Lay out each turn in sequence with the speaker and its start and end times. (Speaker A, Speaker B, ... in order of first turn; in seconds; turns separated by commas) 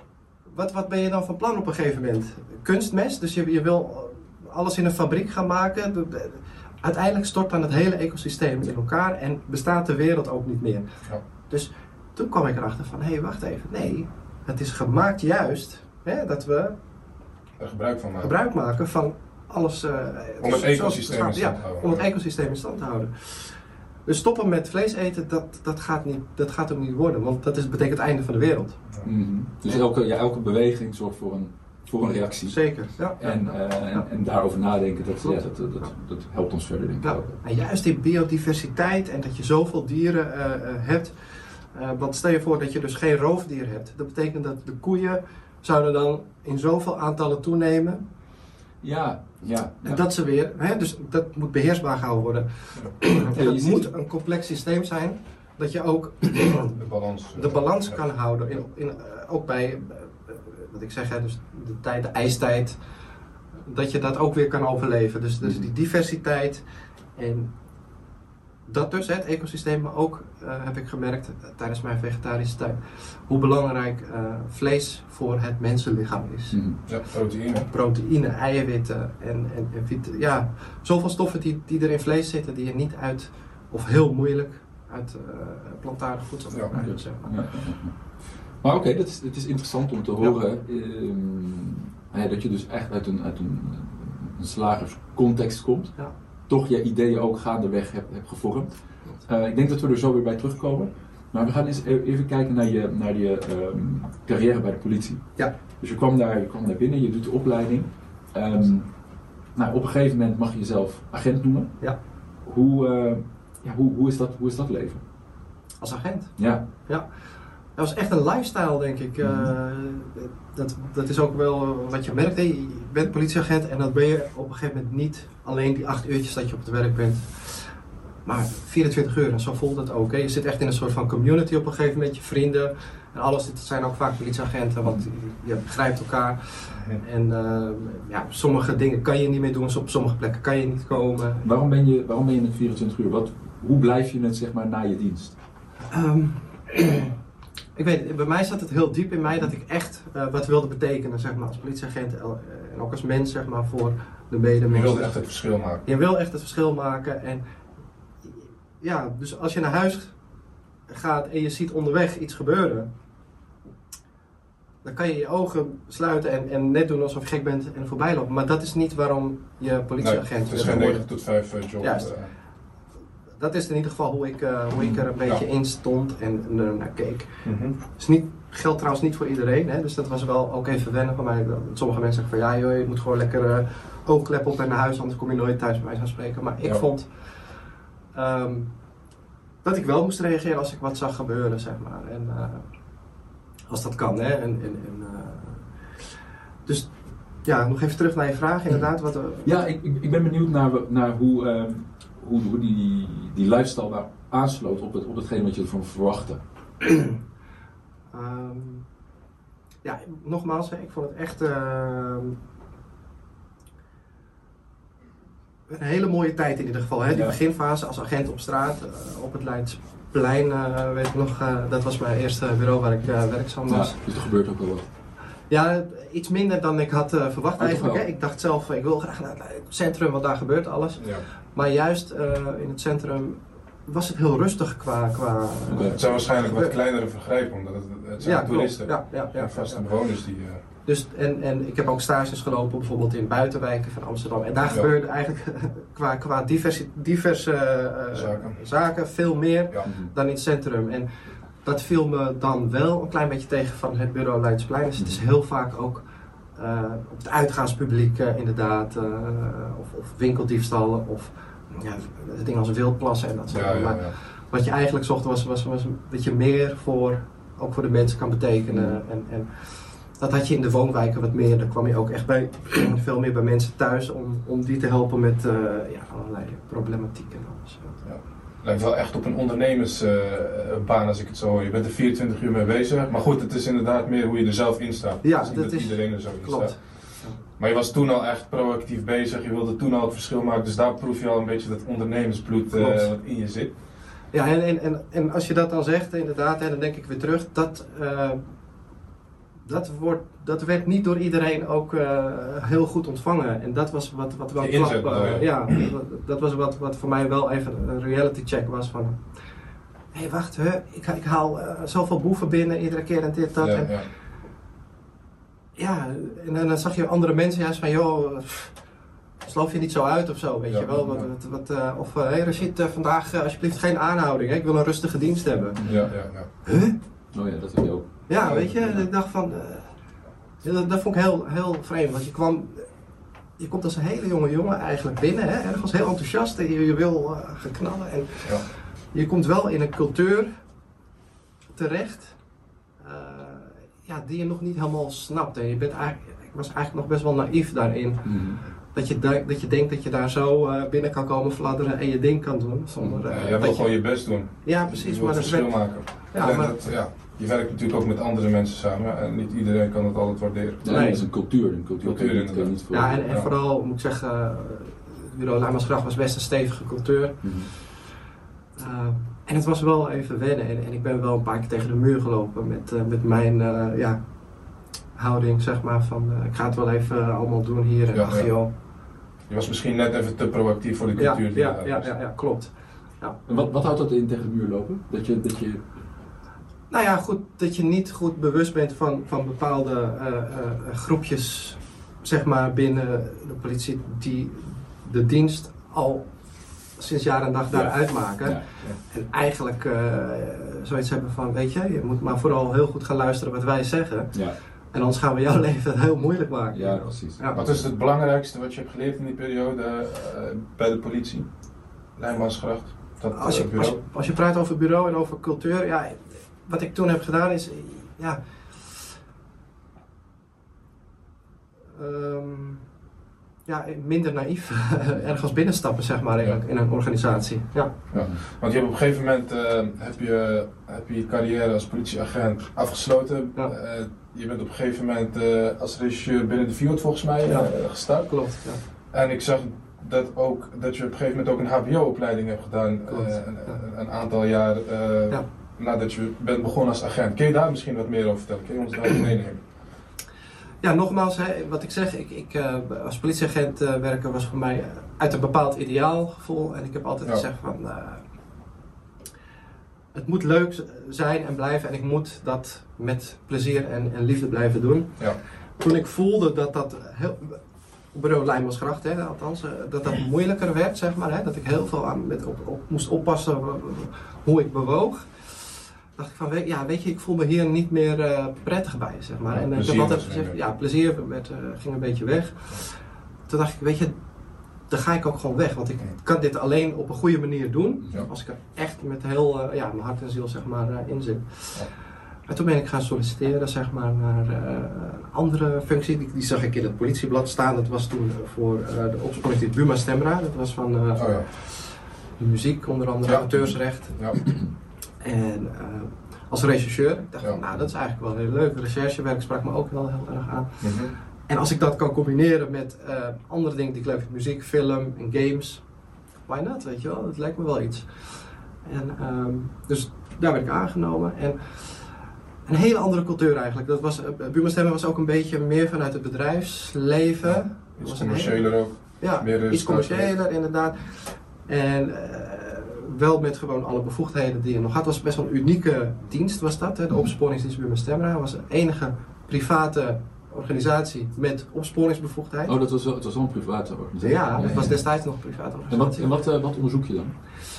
Speaker A: 0.5-16.8, Speaker B: 17.6-18.3, Speaker A: 18.2-28.8, Speaker B: 20.4-22.0, Speaker C: 29.0-37.3, Speaker A: 32.4-34.1, Speaker A: 35.2-35.9, Speaker A: 37.0-48.0, Speaker C: 48.8-50.0, Speaker A: 49.8-56.8, Speaker C: 53.3-53.9, Speaker B: 56.8-58.0, Speaker A: 57.4-62.8, Speaker A: 63.7-66.6, Speaker C: 65.4-65.7, Speaker A: 67.2-67.5, Speaker A: 68.7-76.9, Speaker C: 76.5-76.8, Speaker B: 76.9-77.7, Speaker A: 77.7-87.6, Speaker C: 86.7-115.0, Speaker A: 115.8-117.1, Speaker C: 116.4-116.6, Speaker A: 117.8-141.4, Speaker C: 119.2-119.5, Speaker B: 136.7-137.0, Speaker C: 141.4-145.4, Speaker A: 145.9-147.1, Speaker A: 147.8-155.2, Speaker B: 154.7-155.8, Speaker A: 155.8-157.4, Speaker A: 158.8-160.2, Speaker A: 160.9-162.9, Speaker A: 164.8-171.1, Speaker B: 170.0-172.3, Speaker A: 171.8-172.1, Speaker A: 173.4-187.5, Speaker B: 174.8-175.4, Speaker B: 177.4-177.8, Speaker A: 188.1-188.7, Speaker A: 189.6-192.7, Speaker A: 193.7-196.1, Speaker A: 196.7-196.9, Speaker A: 197.4-199.5, Speaker C: 199.4-206.4, Speaker A: 208.1-208.9, Speaker A: 209.8-212.4, Speaker A: 215.7-224.0, Speaker C: 217.1-217.4, Speaker C: 223.7-224.9, Speaker A: 225.5-236.8, Speaker C: 227.6-228.0, Speaker B: 231.0-231.2, Speaker C: 235.7-236.1, Speaker B: 235.9-240.6, Speaker A: 238.2-239.9, Speaker A: 240.8-251.1, Speaker B: 248.1-248.6, Speaker C: 249.8-250.1, Speaker A: 251.6-256.0, Speaker C: 255.0-255.2, Speaker A: 256.6-278.0, Speaker B: 263.5-264.2, Speaker C: 268.7-269.0, Speaker B: 278.0-293.8, Speaker A: 285.2-287.4, Speaker A: 292.7-293.1, Speaker A: 294.3-298.4, Speaker A: 299.6-309.4, Speaker B: 304.6-305.9, Speaker A: 310.1-314.0, Speaker B: 313.6-314.1, Speaker A: 315.8-318.8, Speaker A: 319.4-327.0, Speaker B: 320.7-321.3, Speaker C: 325.8-326.1, Speaker B: 325.9-326.5, Speaker C: 327.3-329.1, Speaker A: 328.3-330.0, Speaker B: 328.4-329.0, Speaker A: 330.6-332.9, Speaker A: 333.6-340.5, Speaker A: 341.8-342.4, Speaker A: 343.0-356.8, Speaker C: 348.2-348.6, Speaker C: 353.0-353.3, Speaker B: 353.3-361.2, Speaker C: 360.8-363.2, Speaker A: 360.9-361.3, Speaker B: 362.0-363.5, Speaker A: 362.9-368.0, Speaker C: 367.4-367.7, Speaker A: 368.8-374.3, Speaker A: 375.1-378.7, Speaker B: 378.1-378.6, Speaker B: 379.5-382.1, Speaker A: 381.2-383.4, Speaker C: 383.5-385.8, Speaker A: 386.9-407.6, Speaker C: 397.7-398.7, Speaker C: 406.7-407.9, Speaker B: 407.6-414.0, Speaker A: 413.3-419.0, Speaker A: 421.9-422.9, Speaker A: 423.7-428.0, Speaker B: 428.1-449.7, Speaker C: 428.1-428.4, Speaker A: 437.4-438.8, Speaker A: 443.1-443.8, Speaker A: 450.8-458.2, Speaker A: 460.1-467.6, Speaker A: 468.1-484.2, Speaker B: 479.6-480.6, Speaker A: 484.9-491.9, Speaker A: 492.5-504.6, Speaker B: 501.2-501.5, Speaker B: 503.3-504.4, Speaker A: 505.2-515.9, Speaker B: 510.8-511.1, Speaker A: 516.5-542.7, Speaker B: 527.5-530.3, Speaker C: 542.7-545.2, Speaker A: 544.2-546.4, Speaker C: 545.9-547.4